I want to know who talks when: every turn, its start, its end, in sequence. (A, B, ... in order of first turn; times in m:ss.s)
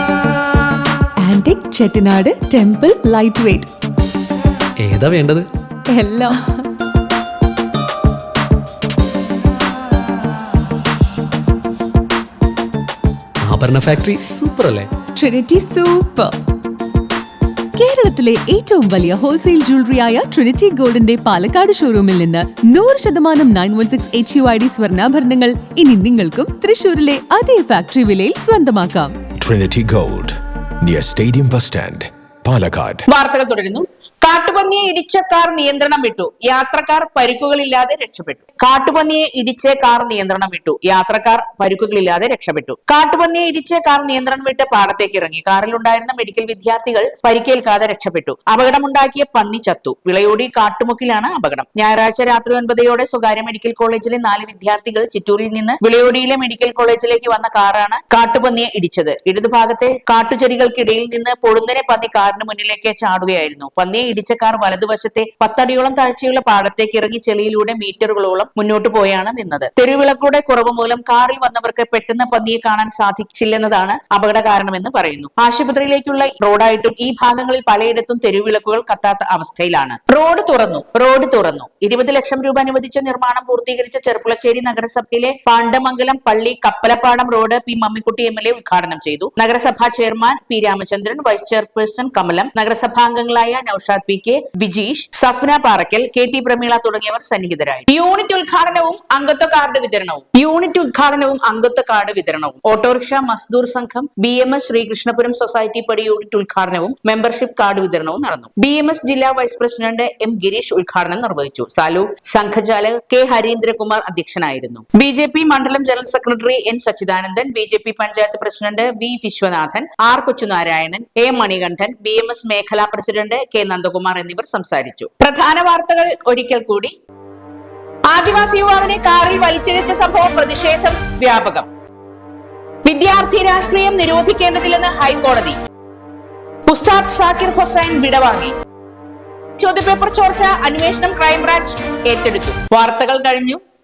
0:01.2-0:03.7 A
0:04.8-0:05.5 B
0:05.9-0:06.4 A
0:13.4-0:15.0 B
0:15.2-0:16.3 A
0:17.8-0:29.1 A
0:29.4-0:33.0 C
0:33.1-2:06.9 D
2:08.1-2:11.7 D
2:12.8-2:15.6 D
2:16.7-2:18.5 D
2:19.6-2:23.6 D